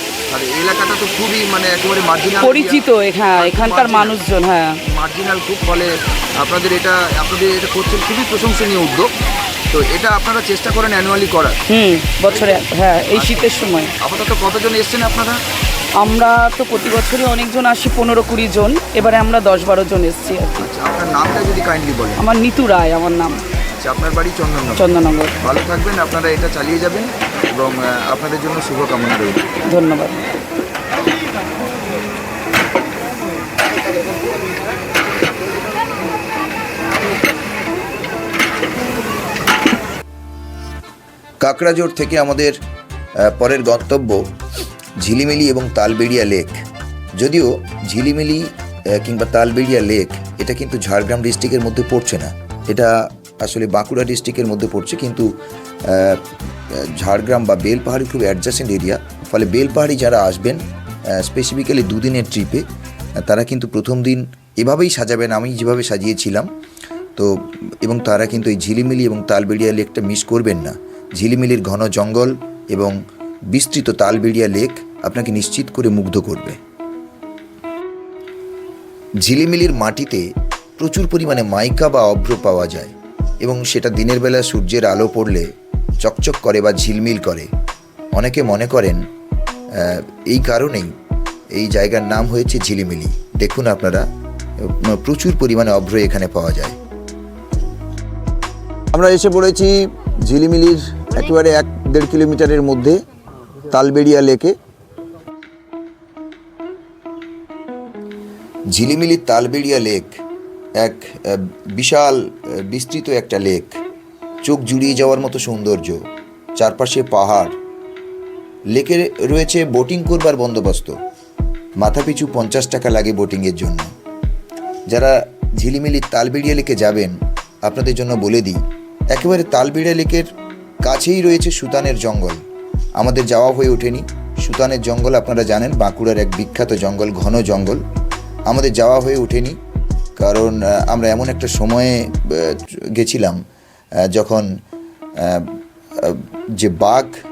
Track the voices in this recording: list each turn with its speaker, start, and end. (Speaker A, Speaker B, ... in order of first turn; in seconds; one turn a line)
Speaker A: 0.3-2.5
Speaker B: 2.4-4.8
Speaker C: 2.5-2.8
Speaker A: 3.4-4.1
Speaker C: 3.6-3.9
Speaker A: 4.9-9.1
Speaker A: 9.7-11.6
Speaker B: 11.7-13.9
Speaker A: 14.0-15.4
Speaker B: 15.9-20.6
Speaker A: 20.6-22.2
Speaker B: 22.2-23.4
Speaker A: 23.8-24.8
Speaker B: 24.8-25.3
Speaker A: 25.4-29.4
Speaker B: 29.7-30.2
Speaker A: 41.4-42.5
Speaker A: 43.2-44.3
Speaker A: 45.0-46.6
Speaker A: 47.1-55.3
Speaker A: 55.8-62.6
Speaker A: 63.2-66.5
Speaker A: 67.2-72.9
Speaker A: 73.5-76.6
Speaker A: 79.2-80.2
Speaker A: 80.8-85.5
Speaker A: 86.0-87.5
Speaker A: 88.1-89.0
Speaker A: 89.7-90.9
Speaker A: 91.5-94.1
Speaker A: 94.6-96.8
Speaker C: 98.9-103.0
Speaker C: 103.7-104.5
Speaker A: 108.7-110.2
Speaker A: 110.8-113.8
Speaker A: 114.4-116.0
Speaker A: 116.5-117.5
Speaker A: 118.7-121.0
Speaker A: 121.8-123.9
Speaker A: 124.9-128.6
Speaker A: 129.1-130.3
Speaker A: 130.8-132.4
Speaker A: 133.0-137.8
Speaker A: 138.5-139.6
Speaker A: 140.2-143.4
Speaker A: 144.1-144.5
Speaker A: 145.2-147.1